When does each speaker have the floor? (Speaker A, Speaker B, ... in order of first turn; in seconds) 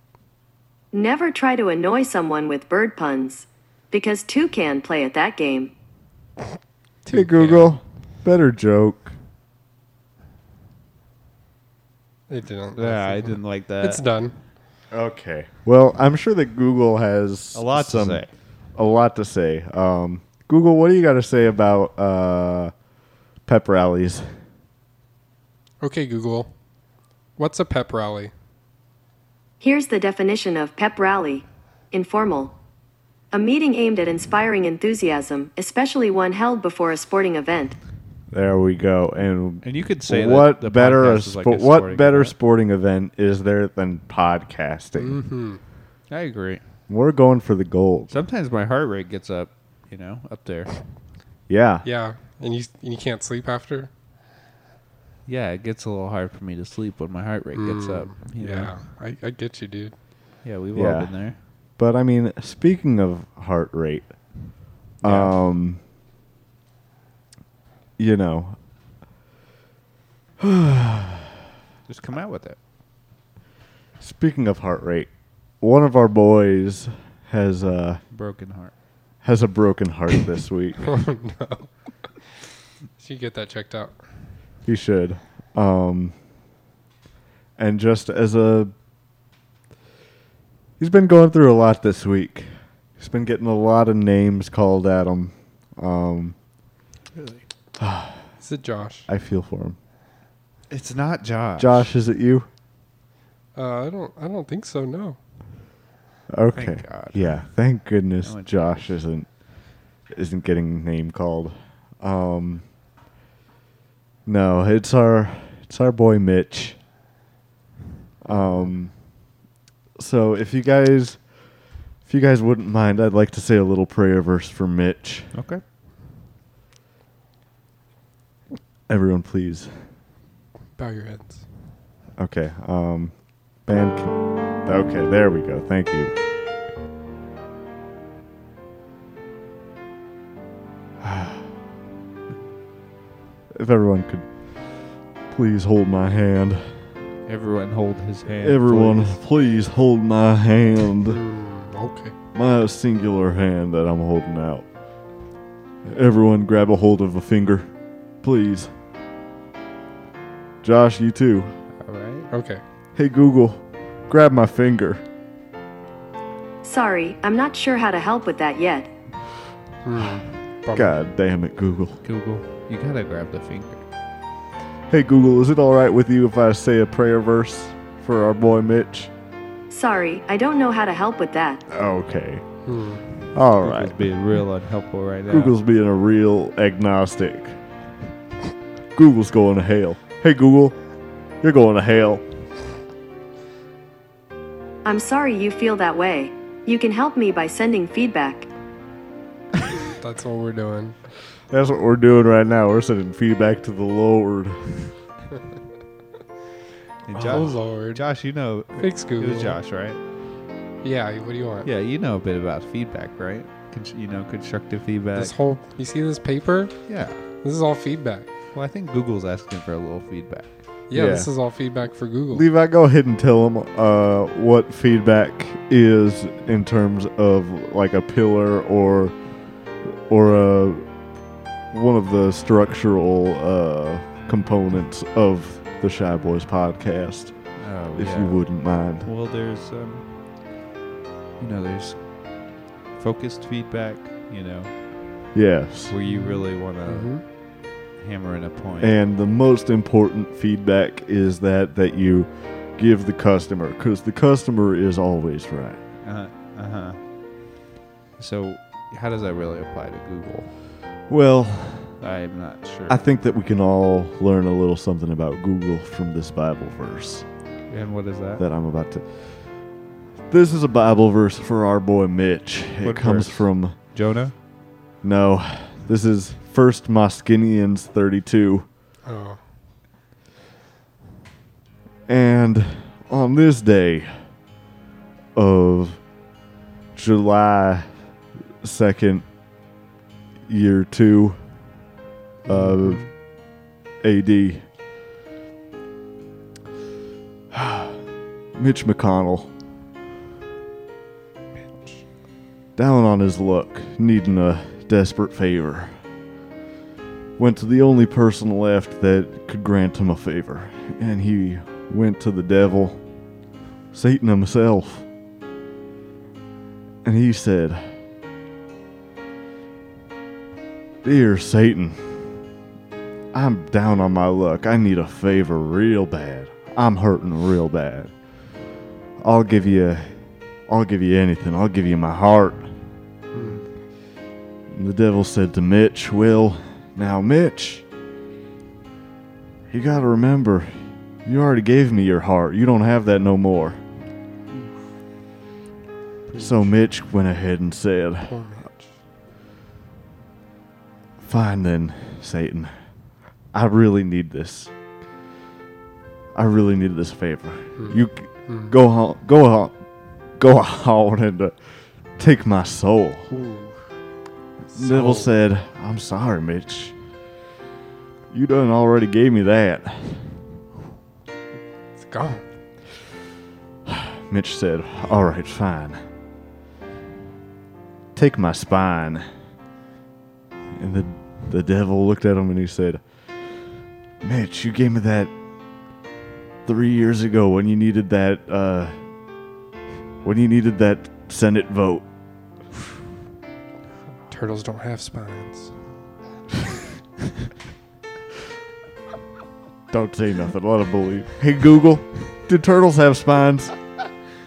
Speaker A: 0.9-5.7, 29.6-32.5, 33.3-37.8, 166.6-168.9, 179.7-181.6, 194.8-198.5
Speaker B: 7.1-9.1, 14.9-22.7, 23.5-24.3, 38.3-45.2, 46.9-48.2, 51.5-51.9, 60.8-61.1, 61.8-64.1, 65.0-65.8, 68.0-68.6, 70.4-71.3, 74.0-78.0, 79.2-80.8, 84.7-86.2, 87.6-88.7, 90.8-96.4, 97.8-98.3, 99.1-99.8, 101.6-102.5, 106.3-109.3, 110.1-112.7, 114.3-116.8, 118.2-118.9, 120.0-121.2, 122.0-125.3, 128.9-129.7, 132.2-136.1, 141.0-141.5, 143.6-144.3, 145.3-146.7, 148.4-151.2, 152.3-154.7, 155.8-157.7, 158.2-158.7, 160.6-161.5, 162.9-165.0, 170.7-172.0, 174.9-179.1, 181.7-182.4, 183.3-184.1, 185.3-187.6, 188.9-190.8, 191.4-192.2, 201.5-204.8, 207.1-207.5, 220.9-221.3, 222.3-229.2, 230.1-230.8, 231.7-239.1, 245.3-245.9, 248.8-255.8, 261.1-262.0, 262.9-267.3, 268.4-269.6, 270.3-273.8, 275.0-278.7, 282.1-284.1, 285.4-286.0, 286.9-287.9, 288.6-289.3, 290.5-291.4, 292.4-293.1, 294.0-294.7, 297.5-298.0, 298.6-299.5, 302.8-306.0, 307.4-313.0, 313.9-315.1, 317.0-317.9, 321.0-322.3, 323.3-328.1, 329.2-332.7, 334.7-337.9, 339.7-343.8, 346.4-348.4, 351.2-352.7, 353.5-354.7, 356.4-359.8, 360.4-361.6, 362.2-363.3, 364.7-366.9, 368.3-370.3, 373.9-376.0, 378.1-379.3, 380.8-383.0, 384.2-385.3, 386.7-389.0, 390.2-392.1, 399.9-403.7
Speaker C: 7.1-7.7, 12.8-14.1, 17.6-18.3, 39.6-42.3, 46.1-46.6, 48.1-50.7, 55.3-58.8, 60.4-61.4, 65.0-65.3, 71.9-72.6, 78.1-78.7, 97.2-97.4, 100.7-101.9, 106.5-107.5, 108.2-108.5, 125.3-125.6, 147.3-149.2, 161.8-162.3, 172.0-173.8, 183.6-185.5, 207.1-210.0, 211.6-215.3, 216.9-217.2, 218.5-220.6, 237.6-238.4, 239.0-240.1, 241.4-244.7, 245.9-248.9, 256.0-257.0, 258.2-260.5, 262.0-263.0, 267.7-268.4, 272.8-274.3, 346.3-346.7
Speaker D: 12.3-14.4, 25.8-26.5, 27.4-28.3, 45.0-45.6, 51.9-53.9, 57.6-59.9, 80.8-81.7, 83.0-84.0, 98.4-99.1, 103.5-105.2, 118.3-118.6, 130.8-131.4, 151.1-152.1, 162.3-162.6, 169.8-170.9, 182.7-183.0, 200.0-201.0, 207.2-208.0, 208.8-209.6, 210.8-211.7, 215.2-216.8, 217.4-218.3, 220.9-222.5, 246.1-247.2, 279.1-279.4, 292.5-293.1, 333.3-333.6, 348.3-348.9, 357.8-358.7, 363.3-363.8, 364.8-365.3, 372.0-372.4, 394.3-395.7